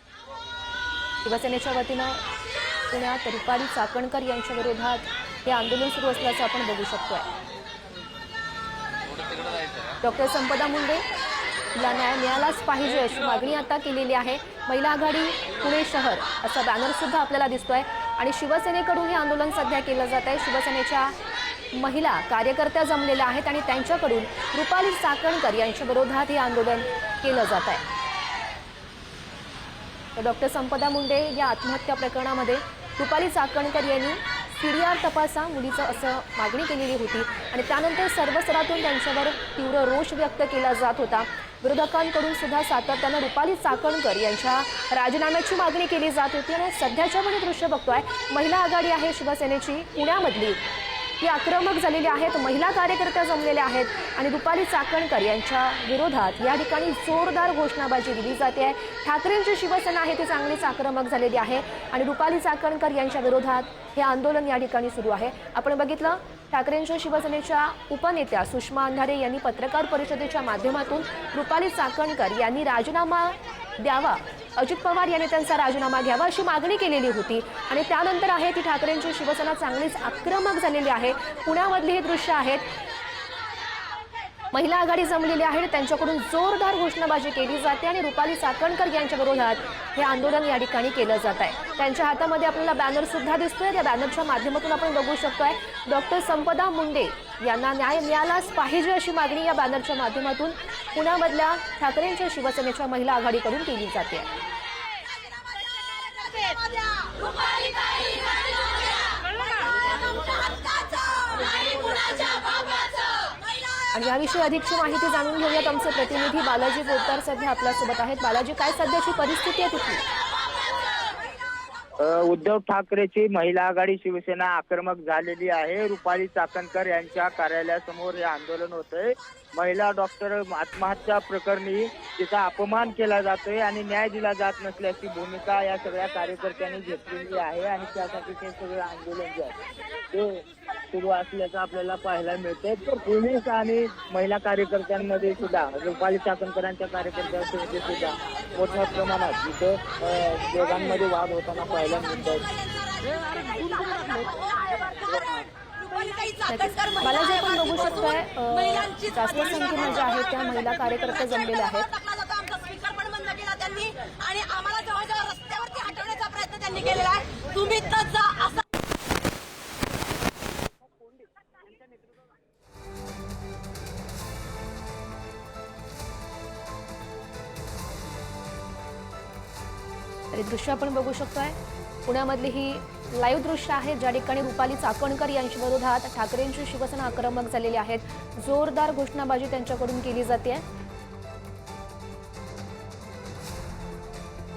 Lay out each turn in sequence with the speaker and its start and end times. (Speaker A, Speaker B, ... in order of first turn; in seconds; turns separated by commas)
Speaker A: 1.2-2.2, Speaker A: 2.9-7.3, Speaker A: 10.0-11.0, Speaker A: 11.7-21.2, Speaker A: 21.7-27.8, Speaker A: 30.1-50.6, Speaker A: 51.2-82.7, Speaker A: 84.5-104.3, Speaker B: 106.2-107.2, Speaker A: 113.9-120.0, Speaker C: 122.0-139.6, Speaker C: 140.1-152.6, Speaker B: 153.5-155.2, Speaker A: 156.3-162.0, Speaker B: 162.4-168.4, Speaker A: 180.3-190.6